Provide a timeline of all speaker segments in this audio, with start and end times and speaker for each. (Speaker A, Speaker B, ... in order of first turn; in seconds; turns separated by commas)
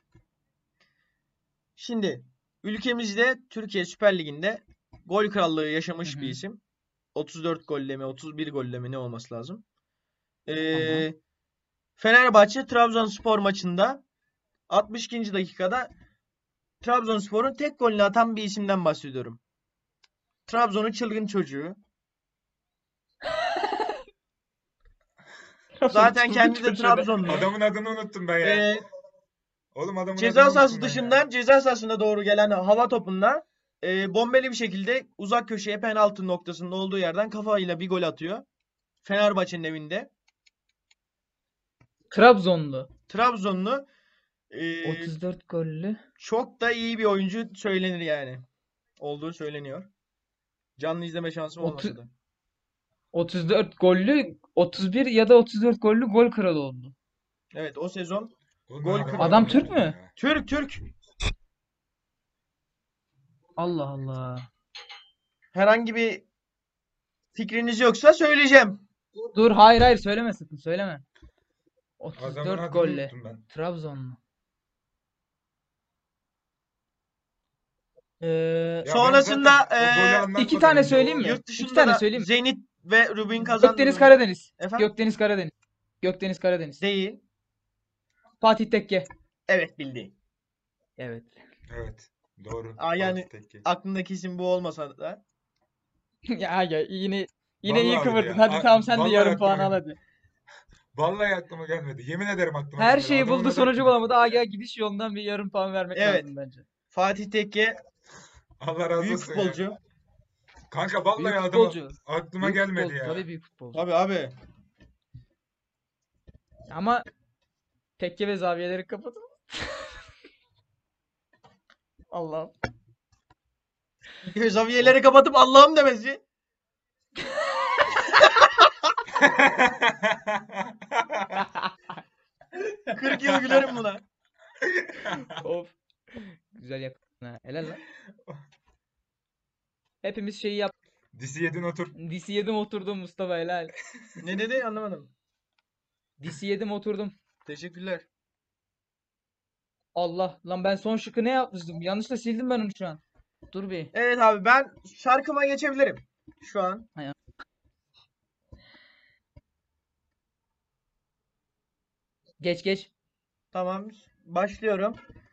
Speaker A: 1.8-6.6, Speaker B: 6.0-6.4, Speaker A: 7.2-9.6, Speaker A: 10.5-11.2, Speaker B: 10.7-11.1, Speaker A: 12.0-14.0, Speaker A: 14.7-15.9, Speaker A: 16.8-19.4, Speaker A: 20.5-21.8, Speaker B: 23.3-24.0, Speaker B: 25.8-27.1, Speaker A: 25.9-27.5, Speaker C: 27.2-28.7, Speaker A: 28.4-28.9, Speaker C: 29.8-31.2, Speaker A: 30.2-38.5, Speaker A: 39.0-40.1, Speaker B: 42.1-42.9, Speaker A: 43.1-43.9, Speaker A: 44.5-45.1, Speaker B: 44.8-46.0, Speaker A: 46.2-48.4, Speaker A: 49.0-49.9, Speaker A: 50.8-52.1, Speaker B: 51.6-52.0, Speaker B: 53.1-56.9, Speaker A: 57.5-60.8, Speaker C: 58.7-60.1, Speaker B: 59.2-60.0, Speaker B: 63.6-64.5, Speaker A: 65.5-66.2, Speaker A: 67.3-68.8, Speaker B: 69.3-71.0, Speaker B: 72.0-74.2, Speaker C: 72.2-73.4, Speaker B: 78.2-78.9, Speaker C: 78.8-81.4, Speaker A: 78.9-80.3, Speaker B: 80.4-82.3, Speaker A: 81.2-84.9, Speaker B: 83.6-86.8, Speaker A: 86.8-87.2, Speaker B: 88.4-89.1, Speaker A: 89.5-90.1, Speaker B: 91.0-91.3, Speaker C: 91.7-93.7, Speaker A: 92.8-95.2, Speaker B: 96.3-100.0, Speaker C: 97.7-99.8, Speaker C: 100.9-104.3, Speaker B: 102.8-106.7, Speaker A: 106.0-106.3, Speaker A: 106.9-107.8, Speaker C: 108.6-109.6, Speaker A: 109.0-109.8, Speaker C: 110.7-113.3, Speaker B: 111.2-113.8, Speaker A: 113.7-114.3, Speaker B: 116.7-117.0, Speaker B: 118.0-119.9, Speaker B: 122.1-122.5, Speaker A: 124.2-126.2, Speaker C: 129.2-131.5, Speaker A: 132.8-134.0, Speaker C: 133.3-133.6, Speaker C: 134.6-135.4, Speaker B: 135.3-137.8, Speaker B: 140.0-140.7, Speaker C: 141.1-141.9, Speaker B: 142.0-143.7, Speaker A: 144.2-145.1, Speaker B: 146.2-147.1, Speaker A: 147.5-148.1, Speaker B: 149.9-153.0, Speaker B: 153.5-153.9, Speaker A: 153.9-156.9, Speaker B: 162.4-162.9, Speaker A: 163.5-165.0